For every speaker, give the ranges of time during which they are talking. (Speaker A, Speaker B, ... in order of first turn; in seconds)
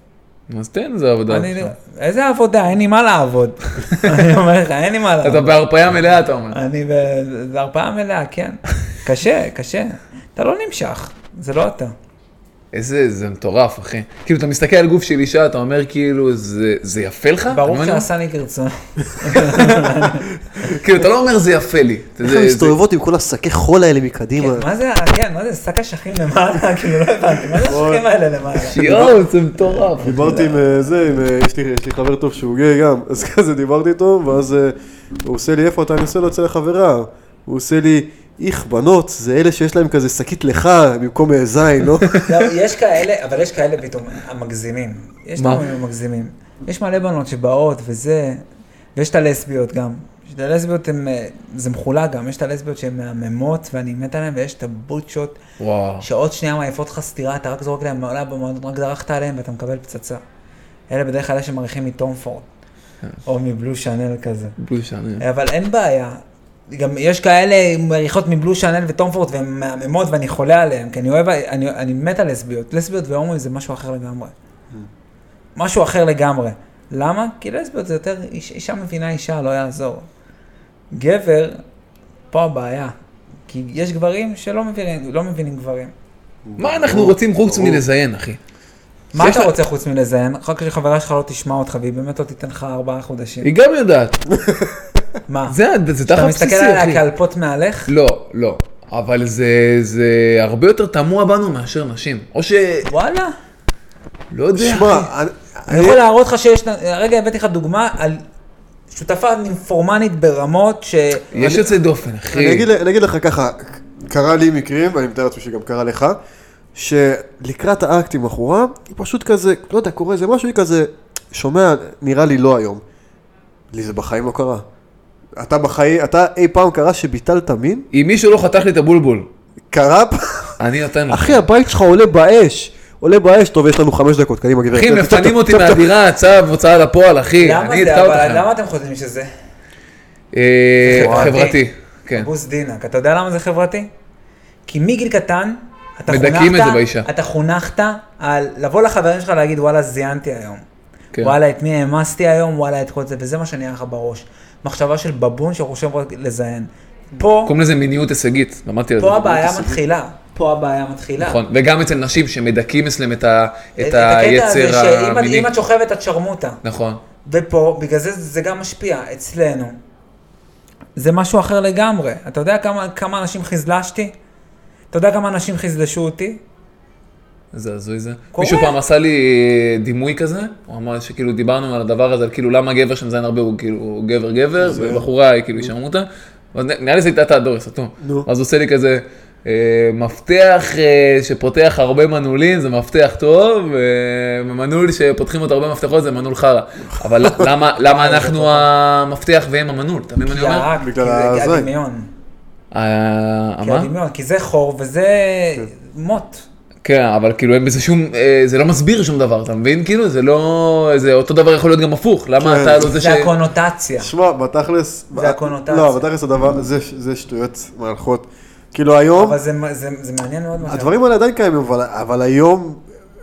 Speaker A: 0.5-1.7, 3.9-4.2, 5.2-6.6, 12.7-18.1, 20.6-22.7, 28.7-30.5, 45.4-45.6, 55.6-56.0, 64.6-65.2, 86.6-88.4, 89.2-89.5, 93.4-94.2, 95.5-97.0, 97.9-102.9, 104.3-105.1, 111.3-112.7, 127.9-129.3, 130.6-131.4, 134.7-138.4, 140.3-142.3, 146.1-147.1, 157.4-159.7, 161.2-165.5, 166.6-167.0, 177.5-200.7, 202.7-203.9, 206.8-213.3
Speaker B: 1.3-5.6, 6.5-11.9, 17.5-20.3, 24.4-29.1, 42.2-48.4, 49.0-55.4, 56.0-60.2, 60.9-62.5, 63.2-64.6, 65.2-74.3, 75.5-80.0, 80.9-81.6, 82.3-82.9, 83.5-85.9, 89.1-93.5, 95.3-95.5, 96.1-97.9, 102.8-103.3, 105.7-108.2, 108.9-111.3, 137.4-139.3, 140.8-141.6, 142.1-143.9, 144.7-150.6, 151.2-157.5, 159.0-161.4, 163.8-166.6, 167.2-169.8, 170.9-174.1, 174.9-176.4, 178.3-178.7, 197.8-198.7, 200.2-202.1, 203.6-206.4, 212.8-214.1, 215.1-216.0, 219.2-221.0
Speaker C: 22.2-24.6, 27.6-28.0, 28.8-29.1, 29.9-42.2, 86.4-87.8, 104.5-106.0, 111.3-111.7, 112.3-116.2, 116.7-122.8, 123.7-124.6, 125.4-127.8, 129.7-130.6, 131.1-136.0, 141.0-141.4, 184.6-185.0, 188.0-188.3, 196.9-197.5, 200.7-201.7, 212.4-212.9, 214.0-219.4, 220.6-222.8